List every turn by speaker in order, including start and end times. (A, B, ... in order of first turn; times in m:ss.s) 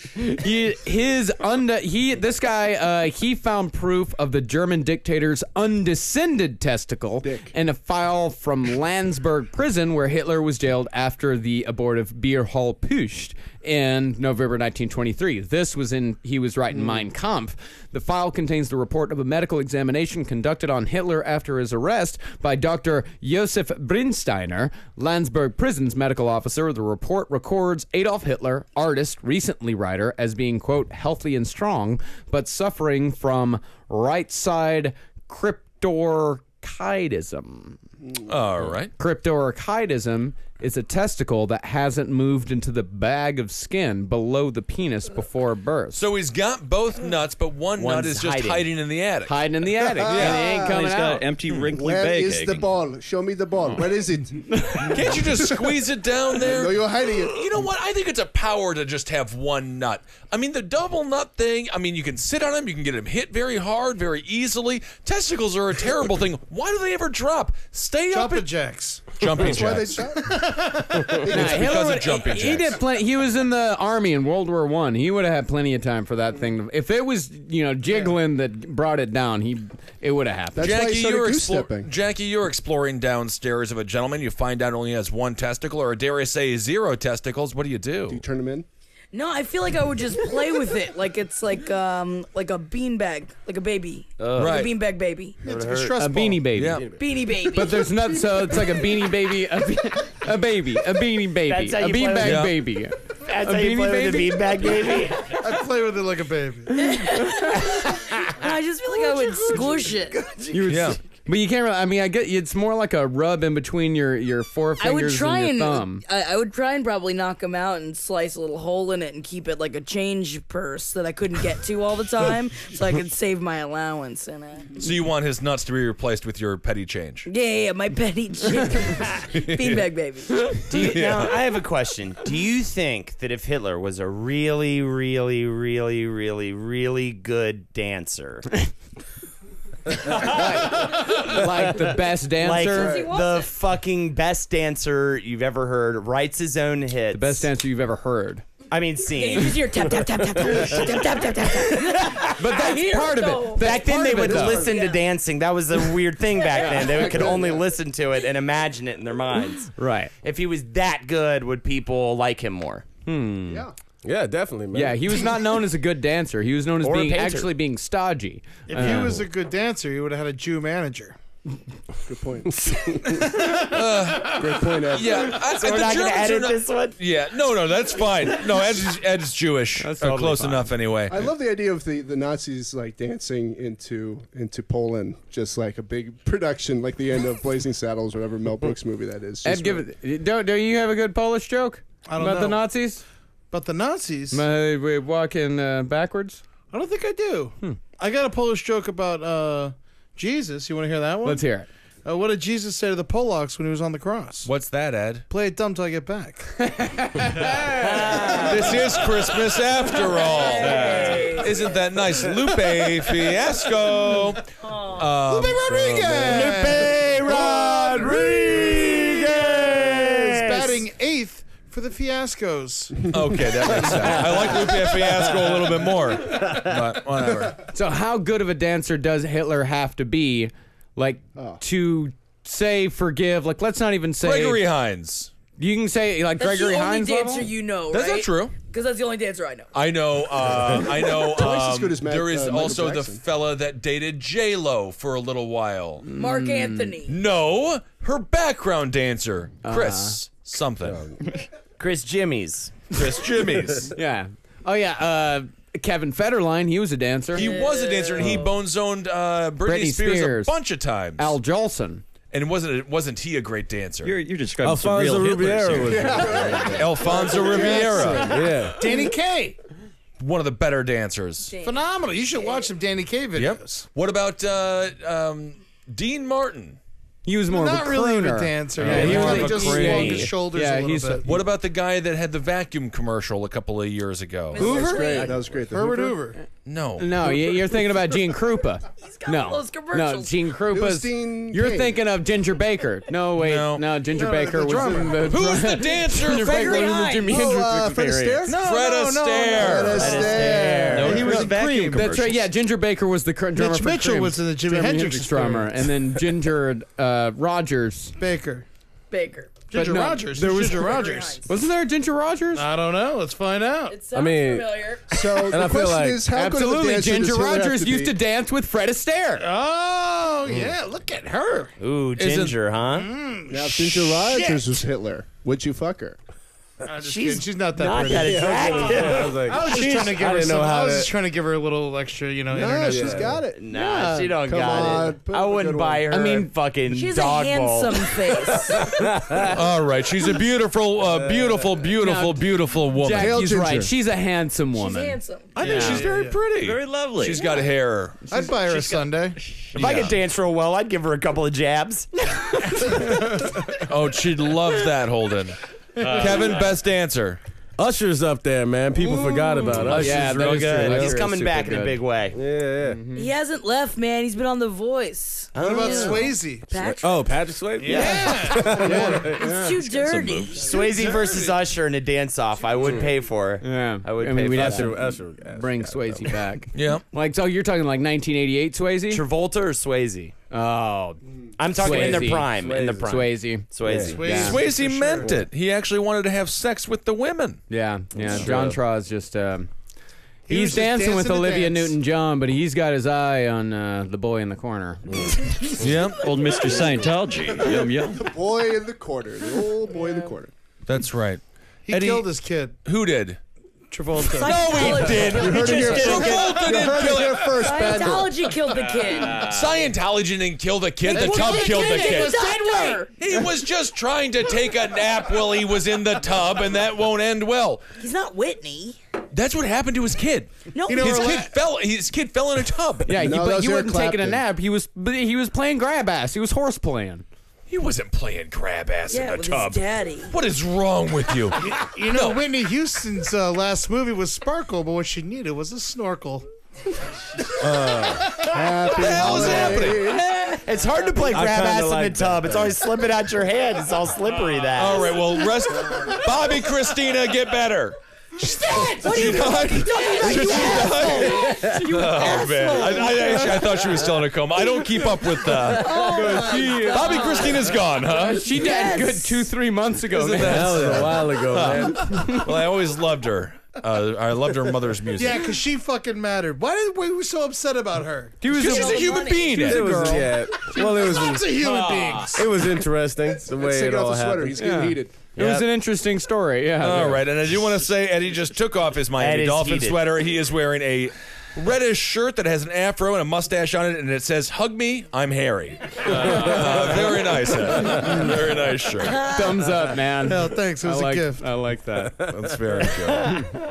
0:00.2-0:37.8 A
0:07.2-0:07.5 B
0:38.3-0:38.9 C
0:39.0-0:46.0 A
0:45.9-0:49.4 C
0:47.8-0:48.7 D
0:49.3-0:51.3 A
0:50.0-0:50.8 B
0:50.0-0:50.5 C
0:50.2-0:52.7 E
0:51.6-0:55.7 B
0:54.9-1:08.5 C
0:56.3-0:57.5 B
1:08.1-1:09.2 F
1:09.1-1:10.0 C
1:09.4-1:10.5 B
1:10.2-1:11.3 F
1:11.2-1:11.9 B
1:11.3-1:20.7 A
1:11.3-1:12.8 C
1:20.5-1:21.9 B
1:20.6-1:28.2 C
1:28.1-1:28.7 B
1:29.1-1:35.4 G
1:34.2-1:34.5 H
1:34.4-1:34.7 C
1:35.4-1:36.6 F
1:35.4-1:35.9 D
1:36.0-1:36.8 A
1:36.5-1:36.9 C
1:36.6-1:37.2 H
1:37.0-1:37.9 G
1:37.5-1:44.8 A
1:41.4-1:42.6 D
1:42.2-1:42.6 C
1:43.2-1:45.4 D
1:45.3-1:47.0 F
1:46.7-1:50.2 G
1:48.9-1:50.4 F
1:50.5-1:56.0 A
1:50.7-1:51.0 C
1:54.8-2:04.7 G
2:04.8-2:07.3 C
2:07.2-2:10.6 G
2:09.3-2:11.4 C
2:10.7-2:18.5 D
2:20.1-2:23.0 A
2:22.4-2:27.5 D
2:22.6-2:23.5 G
2:27.1-2:28.4 A
2:28.7-2:29.9 D
2:29.1-2:33.8 G
2:30.4-2:32.7 D
2:32.3-2:34.7 A
2:33.6-2:42.8 D
2:34.2-2:34.7 B
2:34.5-2:35.1 G
2:36.6-2:37.7 B
2:36.6-2:37.0 G
2:39.8-2:40.1 A
2:43.0-2:43.6 A
2:43.5-2:43.7 B
2:44.0-2:45.2 H
2:44.7-2:49.2 A
2:46.8-2:47.5 D
2:48.7-2:51.2 F
2:52.0-2:53.4 B
2:53.4-3:01.2 C
2:54.2-2:55.4 B
2:55.4-2:57.0 D
2:59.8-3:00.7 A
3:01.1-3:09.8 B
3:09.4-3:13.0 A
3:12.0-3:12.6 F
3:13.5-3:14.4 F
3:14.3-3:16.4 A
3:16.7-3:21.4 F
3:21.2-3:21.7 A
3:22.0-3:24.5 F
3:24.4-3:25.2 C
3:25.3-3:26.6 F
3:26.6-3:28.5 A
3:28.1-3:28.7 D
3:28.3-3:36.9 C
3:30.2-3:31.7 G
3:30.8-3:31.3 E
3:34.6-3:35.1 G
3:35.2-3:39.6 F
3:36.2-3:38.7 H
3:38.4-3:40.8 D
3:40.2-3:43.4 F
3:43.1-3:47.6 C
3:44.0-3:44.6 F
3:47.7-3:54.6 A
3:51.4-3:51.6 B
3:54.2-3:55.3 C
3:55.6-3:57.5 A
3:56.4-3:59.7 G
3:57.9-3:58.6 C
3:59.7-4:06.1 C
4:00.6-4:03.2 B
4:06.0-4:06.9 A
4:06.1-4:07.2 G
4:07.0-4:11.0 C
4:09.6-4:10.2 A
4:10.8-4:11.2 H
4:11.8-4:12.8 D
4:12.9-4:13.9 C
4:13.9-4:17.5 A
4:17.3-4:21.4 C
4:17.3-4:18.4 G
4:18.2-4:18.5 H
4:19.6-4:20.6 A
4:21.2-4:22.0 A
4:22.3-4:24.2 C
4:24.0-4:26.2 E
4:24.6-4:27.0 H
4:25.8-4:28.5 B
4:26.7-4:28.4 C
4:27.3-4:28.1 F
4:28.1-4:28.8 H
4:28.6-4:29.6 F
4:30.2-4:31.5 C
4:31.5-4:32.7 G
4:31.6-4:33.9 F
4:33.3-4:36.8 C
4:37.2-4:41.3 A
4:37.5-4:41.3 F
4:38.8-4:40.3 C
4:41.2-4:44.6 C
4:44.5-4:45.3 G
4:44.6-4:46.2 B
4:44.8-4:45.4 H
4:45.6-4:46.4 F
4:46.6-4:47.3 C
4:47.0-4:58.4 A
4:49.0-4:50.4 G
4:50.7-4:52.0 B
4:53.4-4:53.9 C
4:54.1-4:55.3 F
4:55.2-4:56.8 C
4:56.2-4:57.4 G
4:57.2-4:58.6 B
4:58.4-5:02.1 F
4:58.5-5:00.2 C
4:59.5-5:01.5 B
5:00.0-5:01.4 D
5:00.9-5:02.5 E
5:01.9-5:08.1 A
5:03.5-5:05.7 F
5:08.2-5:08.6 F
5:09.1-5:09.7 G
5:09.7-5:11.4 F
5:09.7-5:10.9 A
5:10.7-5:11.4 G
5:11.4-5:12.6 A
5:12.5-5:14.0 F
5:13.9-5:15.1 G
5:14.1-5:14.8 H
5:15.1-5:18.2 B
5:15.3-5:16.2 H
5:16.3-5:19.5 A
5:19.4-5:21.8 F
5:21.8-5:23.1 D
5:22.2-5:22.6 C
5:22.9-5:24.7 F
5:23.5-5:26.2 B
5:26.8-5:33.4 F
5:27.0-5:29.4 D
5:28.1-5:31.1 H
5:32.5-5:33.6 B
5:32.9-5:33.4 H
5:33.5-5:38.2 D
5:33.8-5:34.3 A
5:34.3-5:36.1 B
5:36.1-5:36.5 A
5:36.9-5:39.0 G
5:38.8-5:39.6 H
5:39.4-5:43.4 C
5:41.1-5:41.6 H
5:42.0-5:45.2 A
5:43.1-5:43.9 B
5:44.7-5:45.6 G
5:45.5-5:48.2 C
5:45.6-5:46.5 F
5:46.6-5:47.5 E
5:48.3-5:49.4 F
5:49.7-5:50.1 E
5:49.7-5:50.2 C
5:49.7-5:52.1 D
5:52.6-5:52.9 G
5:52.8-5:53.6 F
5:53.8-5:57.4 C
5:56.0-5:56.6 F
5:56.0-5:56.7 E
5:57.8-6:01.2 H
5:59.8-6:00.9 C
5:59.9-6:02.0 A
5:59.9-6:02.4 D
6:02.3-6:03.0 H
6:02.8-6:03.3 A
6:03.1-6:07.4 G
6:05.5-6:06.3 D
6:05.5-6:06.7 F
6:06.7-6:09.6 H
6:07.8-6:09.3 F
6:08.0-6:08.3 G
6:09.3-6:10.8 G
6:09.8-6:10.6 E
6:10.6-6:15.0 D
6:10.6-6:11.6 F
6:12.8-6:13.1 H
6:13.6-6:19.2 A
6:14.5-6:16.4 H
6:16.7-6:17.0 C
6:19.1-6:20.3 D
6:20.5-6:21.2 A
6:21.6-6:24.6 D
6:21.7-6:23.7 A
6:21.8-6:23.1 H
6:23.8-6:24.2 H
6:24.0-6:25.4 F
6:24.2-6:24.6 A
6:24.3-6:27.6 C
6:27.7-6:29.7 A
6:28.2-6:28.8 H
6:30.5-6:31.9 F
6:30.5-6:35.4 A
6:35.8-6:36.3 C
6:36.2-6:38.3 E
6:36.2-6:36.8 G
6:37.6-6:40.5 B
6:40.9-6:42.3 C
6:41.8-6:42.8 F
6:42.8-6:43.4 C
6:43.9-6:45.4 F
6:44.3-6:47.9 C
6:44.3-6:46.5 G
6:45.2-6:48.5 B
6:46.2-6:46.6 F
6:47.5-6:49.4 G
6:49.2-6:52.4 C
6:49.3-6:49.7 E
6:51.1-6:53.0 F
6:51.1-6:53.1 G
6:53.2-6:57.8 C
6:58.0-6:59.0 G
6:59.3-7:03.2 C
7:00.7-7:01.4 G
7:00.8-7:01.5 F
7:03.0-7:07.2 A
7:03.1-7:04.4 B
7:07.7-7:12.4 C
7:09.1-7:10.3 G
7:11.6-7:16.5 F
7:17.6-7:20.1 C
7:18.4-7:20.4 B
7:20.0-7:20.6 G
7:20.6-7:25.1 D
7:21.3-7:22.9 H
7:24.8-7:28.0 C
7:28.4-7:33.8 G
7:28.7-7:38.6 C
7:31.4-7:31.8 H
7:35.5-7:37.8 G
7:35.9-7:37.4 A
7:38.1-7:41.1 A
7:38.5-7:39.5 G
7:40.1-7:45.6 C
7:40.4-7:42.4 H
7:42.0-7:42.5 A
7:45.1-7:48.5 F
7:48.4-7:50.3 A
7:48.5-7:50.3 C
7:48.5-7:49.6 G
7:49.5-7:54.6 H
7:50.5-7:52.6 F
7:53.4-7:55.2 B
7:54.6-7:57.2 A
7:56.8-8:09.3 C
7:59.2-8:00.0 D
8:06.1-8:06.6 H
8:09.2-8:09.5 G
8:09.2-8:12.2 A
8:10.2-8:11.5 F
8:12.3-8:13.4 C